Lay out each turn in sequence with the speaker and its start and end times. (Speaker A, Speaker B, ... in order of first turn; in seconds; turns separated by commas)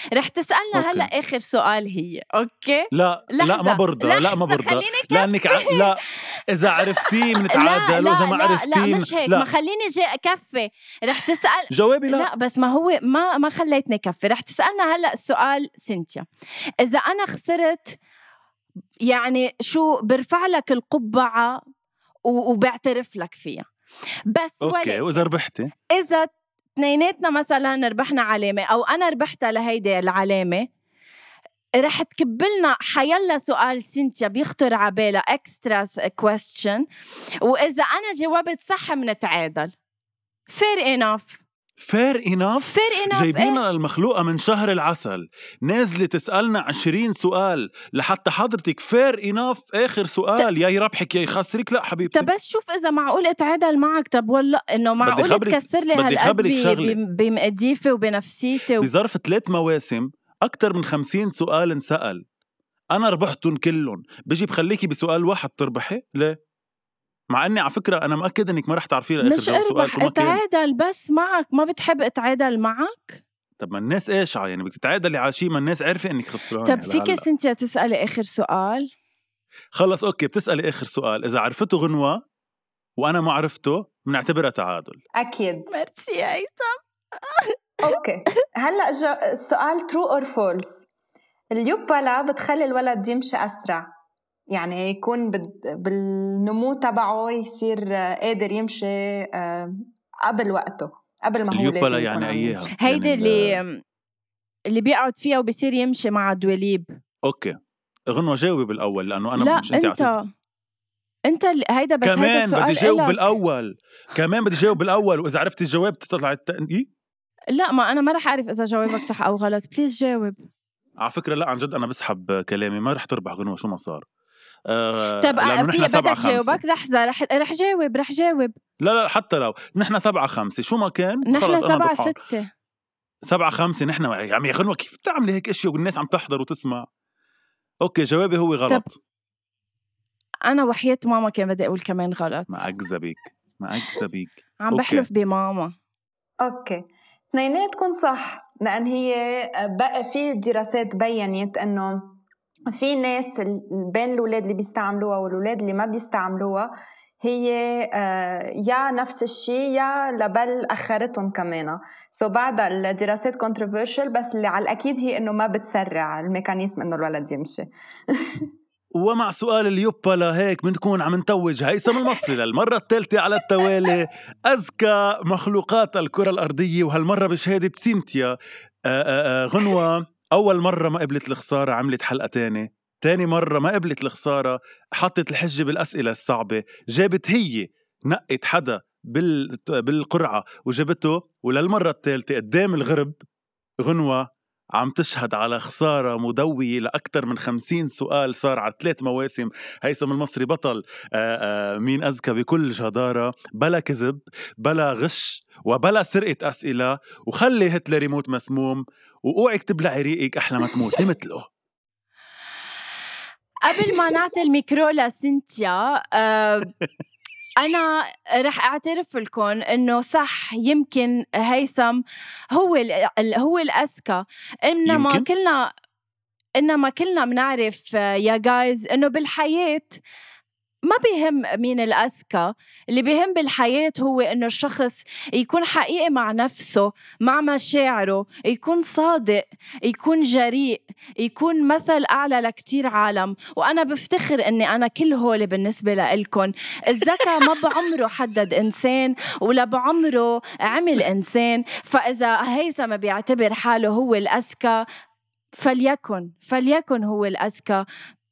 Speaker A: 0.1-5.9, Speaker B: 0.7-1.1, Speaker B: 2.9-9.5, Speaker A: 6.7-16.3, Speaker B: 11.7-12.3, Speaker A: 16.8-18.0, Speaker A: 19.1-21.6, Speaker A: 22.3-23.7, Speaker A: 24.3-25.0, Speaker B: 24.6-25.7, Speaker A: 25.9-30.7, Speaker A: 31.8-36.8, Speaker A: 37.4-39.7, Speaker A: 40.5-41.4, Speaker B: 41.8-52.3, Speaker A: 42.7-43.6, Speaker A: 52.1-58.9, Speaker B: 55.0-57.0, Speaker B: 58.8-62.2, Speaker B: 62.9-66.4, Speaker B: 67.3-70.4, Speaker A: 69.2-73.2, Speaker B: 73.6-77.2, Speaker A: 76.7-78.9, Speaker B: 79.8-82.2, Speaker B: 83.0-85.0, Speaker C: 85.2-85.7, Speaker A: 85.7-88.0, Speaker C: 87.8-90.9, Speaker C: 91.5-93.9, Speaker C: 94.5-102.6, Speaker B: 101.5-103.6, Speaker A: 102.8-103.8, Speaker A: 104.7-106.9, Speaker B: 107.3-107.6, Speaker B: 108.1-110.1, Speaker A: 109.4-110.2, Speaker A: 111.3-113.2, Speaker B: 112.0-116.9, Speaker A: 117.5-120.4, Speaker B: 121.0-124.0, Speaker B: 124.7-126.6, Speaker A: 125.2-128.6, Speaker B: 128.8-132.2, Speaker A: 131.3-132.5, Speaker B: 133.3-136.9, Speaker B: 137.8-139.0, Speaker A: 140.5-142.6, Speaker B: 142.5-145.1, Speaker A: 144.6-145.7, Speaker C: 146.4-146.8, Speaker C: 147.3-152.2, Speaker C: 152.7-156.7, Speaker C: 157.2-168.5, Speaker B: 169.0-178.3, Speaker C: 172.0-172.3, Speaker B: 178.9-193.2, Speaker B: 193.8-211.5, Speaker A: 213.6-216.7, Speaker A: 217.6-225.7, Speaker B: 224.9-225.3, Speaker A: 226.6-230.0, Speaker A: 230.9-254.8, Speaker A: 255.6-257.8